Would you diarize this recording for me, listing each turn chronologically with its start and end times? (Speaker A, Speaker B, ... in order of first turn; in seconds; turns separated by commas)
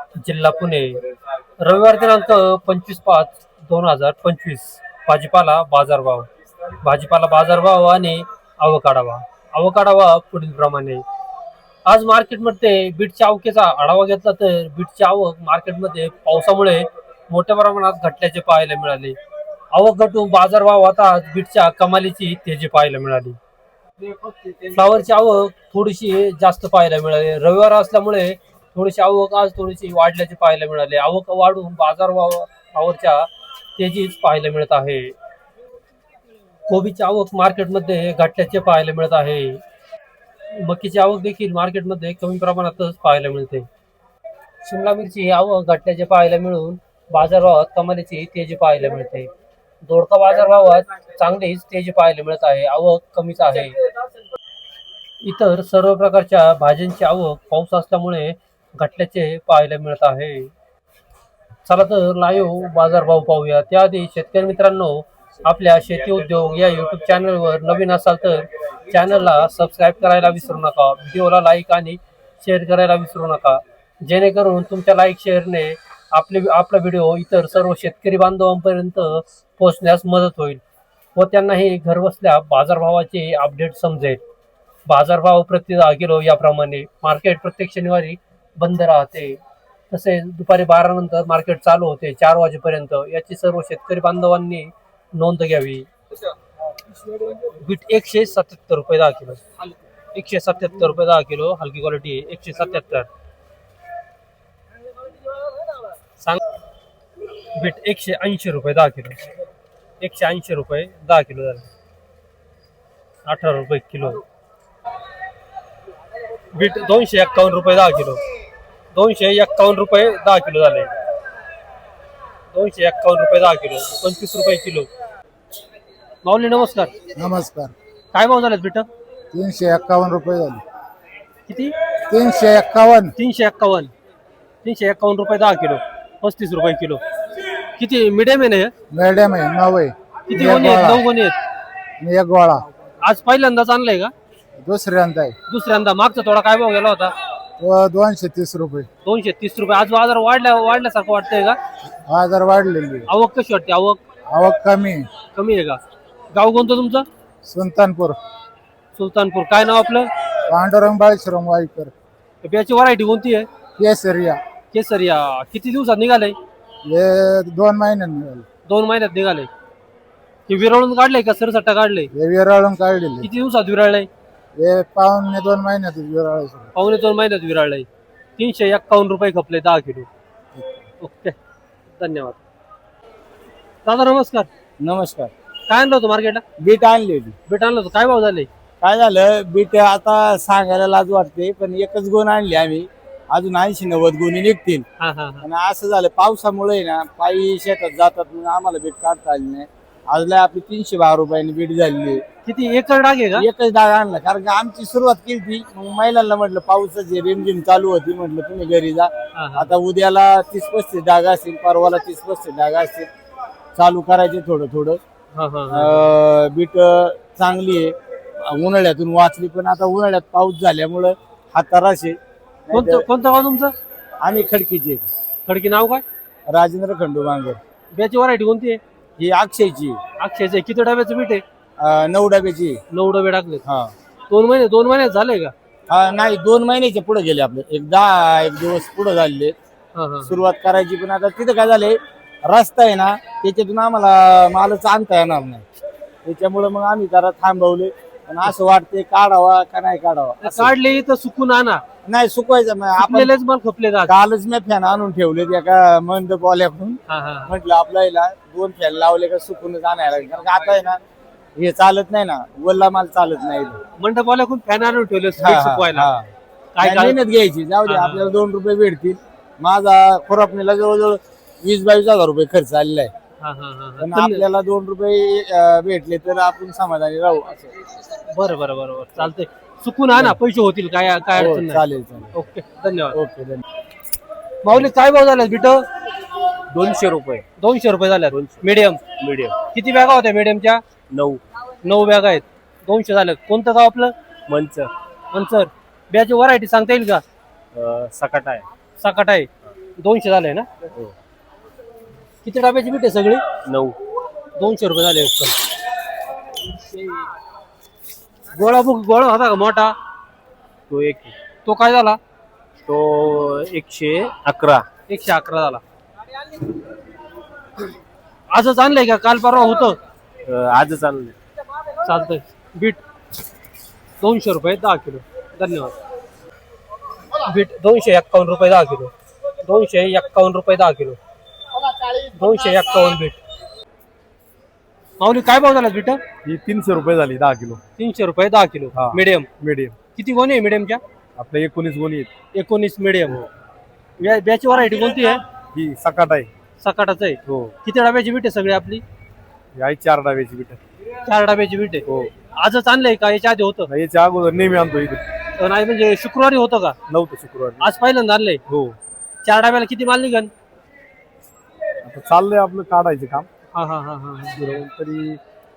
Speaker A: 0.2-1.0, Speaker A: 1.6-6.3, Speaker A: 6.8-11.0, Speaker A: 11.9-19.2, Speaker A: 19.7-23.4, Speaker A: 24.6-35.1, Speaker A: 36.7-39.6, Speaker A: 40.5-43.7, Speaker A: 44.6-49.3, Speaker A: 49.8-53.8, Speaker A: 55.2-60.5, Speaker A: 61.7-80.6, Speaker A: 81.1-84.2, Speaker A: 84.9-89.4, Speaker A: 89.9-95.9, Speaker A: 97.5-99.4, Speaker A: 100.1-103.1, Speaker A: 107.5-109.2, Speaker A: 110.0-111.7, Speaker A: 113.2-114.2, Speaker A: 116.5-118.2, Speaker A: 118.9-120.9, Speaker A: 122.5-124.9, Speaker A: 126.2-126.9, Speaker B: 127.2-127.7, Speaker A: 128.1-128.9, Speaker B: 129.3-130.6, Speaker A: 131.5-131.7, Speaker B: 132.1-133.1, Speaker A: 133.2-133.9, Speaker A: 134.6-137.0, Speaker A: 137.8-138.7, Speaker B: 139.0-140.4, Speaker A: 140.3-141.4, Speaker C: 140.4-140.9, Speaker B: 142.0-142.7, Speaker A: 143.0-144.1, Speaker B: 144.7-145.3, Speaker A: 145.5-147.1, Speaker B: 147.6-148.9, Speaker A: 149.1-151.6, Speaker B: 152.1-153.1, Speaker A: 153.1-154.0, Speaker B: 154.3-155.1, Speaker A: 155.3-155.8, Speaker A: 156.3-157.1, Speaker B: 157.5-158.2, Speaker A: 159.0-160.1, Speaker B: 160.5-161.9, Speaker A: 162.4-163.5, Speaker B: 163.8-164.4, Speaker A: 164.7-166.4, Speaker B: 166.9-168.4, Speaker A: 168.7-169.5, Speaker A: 170.5-172.1, Speaker B: 172.2-173.3, Speaker A: 173.2-174.1, Speaker B: 174.6-176.7, Speaker A: 176.8-177.9, Speaker A: 178.4-180.1, Speaker A: 181.0-181.4, Speaker A: 182.0-182.4, Speaker A: 183.8-184.5, Speaker C: 184.8-185.3, Speaker A: 185.7-186.4, Speaker C: 186.6-187.3, Speaker A: 187.5-188.5, Speaker C: 188.8-194.8, Speaker A: 195.0-195.5, Speaker C: 195.4-202.2, Speaker A: 202.4-203.5, Speaker C: 203.5-209.1, Speaker A: 209.3-209.7, Speaker C: 209.6-213.1, Speaker C: 213.8-215.0, Speaker A: 215.3-216.1, Speaker C: 215.8-217.9, Speaker C: 218.5-222.2, Speaker C: 222.7-223.0, Speaker A: 222.7-223.7, Speaker C: 224.2-225.0, Speaker A: 225.4-226.0, Speaker C: 226.5-227.6, Speaker A: 227.9-228.8, Speaker C: 229.2-230.0, Speaker A: 230.2-231.4, Speaker C: 231.8-232.8, Speaker A: 232.9-233.6, Speaker A: 234.3-235.5, Speaker C: 235.9-239.5, Speaker A: 239.9-240.4, Speaker C: 240.3-241.9, Speaker C: 242.5-245.6, Speaker C: 246.3-250.7, Speaker A: 250.4-251.8, Speaker C: 252.1-253.3, Speaker A: 253.0-254.1, Speaker C: 254.1-257.0, Speaker A: 257.1-257.5, Speaker C: 257.6-261.0, Speaker C: 261.6-263.8, Speaker A: 264.0-266.1, Speaker C: 265.4-266.0, Speaker A: 266.8-267.2, Speaker C: 266.8-273.1, Speaker A: 267.9-268.3, Speaker A: 273.4-274.4, Speaker C: 274.0-277.7, Speaker A: 278.3-281.8, Speaker C: 281.4-282.3, Speaker A: 282.3-283.2, Speaker C: 283.2-283.6, Speaker A: 284.6-285.9, Speaker D: 286.7-287.4, Speaker A: 287.6-289.0, Speaker D: 288.3-288.6, Speaker D: 289.2-289.6, Speaker A: 289.7-290.8, Speaker D: 291.1-291.4, Speaker A: 291.8-294.1, Speaker D: 294.5-294.9, Speaker A: 295.3-297.2, Speaker D: 297.8-298.6, Speaker A: 299.0-300.7, Speaker A: 302.4-303.4, Speaker D: 303.6-304.0, Speaker A: 304.6-305.6, Speaker A: 308.5-309.9, Speaker D: 310.9-311.3, Speaker A: 311.6-312.2, Speaker D: 312.9-314.9, Speaker A: 315.1-315.8, Speaker A: 318.5-320.0, Speaker D: 320.5-321.4, Speaker A: 322.0-323.0, Speaker A: 324.2-326.0, Speaker A: 327.4-329.1, Speaker A: 329.6-331.2, Speaker A: 332.3-333.4, Speaker A: 335.2-336.2, Speaker E: 336.4-337.8, Speaker A: 338.0-339.5, Speaker E: 338.9-340.0, Speaker A: 340.1-341.0, Speaker E: 341.4-342.3, Speaker A: 342.5-343.4, Speaker A: 344.2-345.4, Speaker E: 345.8-346.5, Speaker A: 346.8-349.0, Speaker E: 347.5-347.8, Speaker E: 349.8-350.8, Speaker A: 351.2-353.9, Speaker E: 353.9-355.2, Speaker A: 355.6-357.0, Speaker E: 357.1-357.9, Speaker A: 357.8-358.6, Speaker E: 358.7-359.0, Speaker A: 359.4-360.5, Speaker E: 362.1-363.5, Speaker A: 363.7-364.8, Speaker E: 364.6-365.4